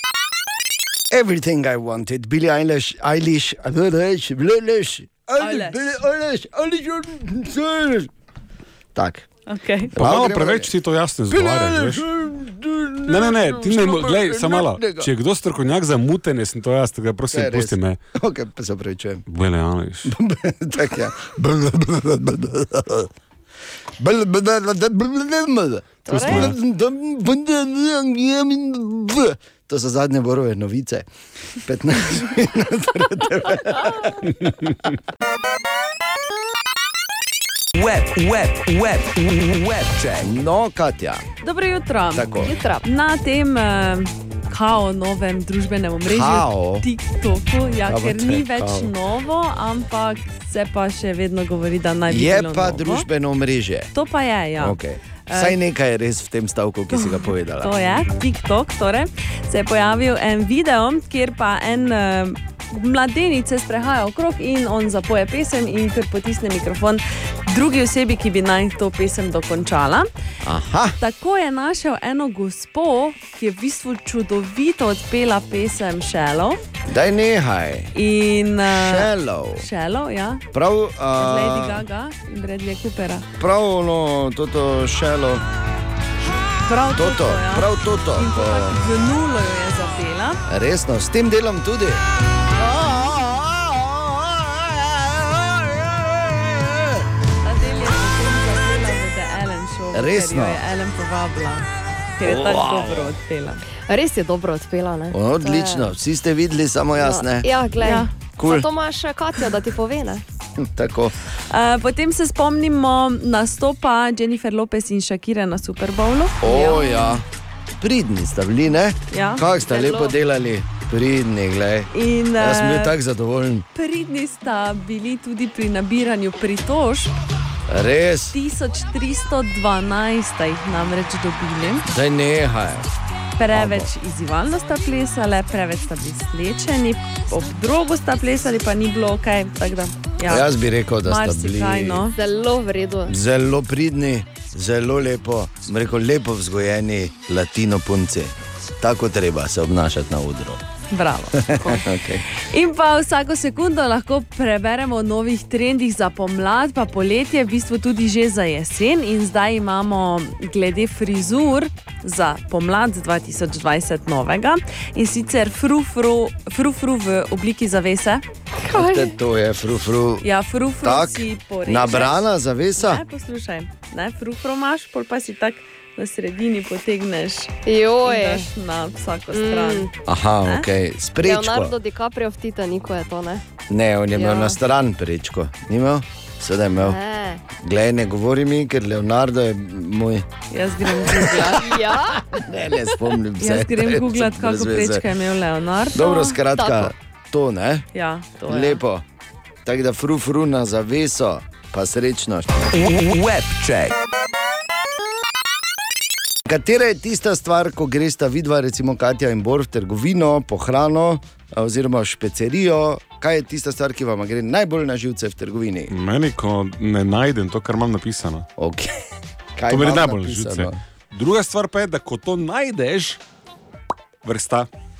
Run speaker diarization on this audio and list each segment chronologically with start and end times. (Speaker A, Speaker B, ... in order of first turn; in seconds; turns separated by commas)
Speaker A: 1.1-8.1, Speaker B: 5.4-5.9, Speaker A: 8.9-9.3, Speaker B: 9.5-9.9, Speaker A: 9.9-10.7, Speaker C: 9.9-12.1, Speaker A: 11.3-15.1, Speaker C: 13.1-18.0, Speaker A: 17.3-19.2, Speaker C: 19.3-20.1, Speaker A: 20.0-23.1, Speaker A: 24.0-31.1, Speaker D: 26.1-26.5, Speaker C: 26.2-26.5, Speaker A: 31.6-34.5, Speaker E: 37.7-40.3, Speaker A: 40.2-41.3, Speaker B: 41.4-53.0, Speaker A: 42.1-42.5, Speaker D: 42.4-42.8, Speaker A: 46.0-46.9, Speaker A: 47.8-48.9, Speaker A: 52.1-53.9, Speaker B: 53.9-55.6, Speaker A: 54.6-57.7, Speaker B: 56.9-70.1, Speaker A: 70.4-71.0, Speaker B: 71.0-76.6, Speaker A: 76.9-77.9, Speaker B: 77.9-80.4, Speaker A: 78.6-79.7, Speaker A: 80.5-81.8, Speaker B: 81.2-83.3, Speaker A: 83.4-85.4, Speaker B: 86.6-90.4, Speaker A: 86.9-88.8, Speaker A: 90.5-97.0, Speaker B: 97.4-101.7, Speaker A: 99.9-100.6, Speaker B: 102.2-103.6, Speaker A: 102.2-103.1, Speaker D: 103.8-105.9, Speaker A: 105.1-107.5, Speaker D: 107.0-110.2, Speaker B: 107.8-108.1, Speaker A: 108.4-108.7, Speaker A: 110.6-111.1, Speaker B: 111.5-117.2, Speaker A: 116.4-117.2, Speaker A: 117.8-123.7, Speaker B: 119.1-120.1, Speaker B: 121.9-122.9, Speaker B: 123.7-127.1, Speaker A: 127.7-128.3, Speaker B: 128.3-131.9, Speaker A: 131.9-132.9, Speaker B: 133.4-140.5, Speaker A: 133.5-133.9, Speaker A: 140.3-142.1, Speaker B: 141.0-142.2, Speaker D: 142.1-143.1, Speaker A: 143.1-150.6, Speaker B: 150.9-168.2, Speaker A: 151.3-152.3, Speaker D: 168.6-169.1, Speaker A: 168.7-170.2, Speaker B: 170.2-179.9, Speaker A: 170.8-173.0, Speaker D: 177.7-178.5, Speaker D: 179.3-179.9, Speaker A: 180.0-181.7, Speaker D: 181.2-183.4, Speaker A: 183.7-187.0, Speaker D: 184.1-184.6, Speaker D: 186.7-187.4, Speaker A: 187.5-190.3, Speaker B: 190.5-191.7, Speaker D: 191.2-192.2, Speaker A: 191.2-195.1, Speaker B: 193.4-196.4, Speaker A: 195.9-197.8, Speaker D: 196.5-196.9, Speaker B: 197.9-198.8, Speaker A: 198.4-199.0, Speaker A: 199.6-202.7, Speaker E: 202.7-203.9, Speaker A: 206.4-215.9, Speaker C: 215.9-218.4, Speaker A: 218.6-219.0, Speaker A: 219.6-220.8, Speaker C: 219.7-223.2, Speaker C: 224.2-224.7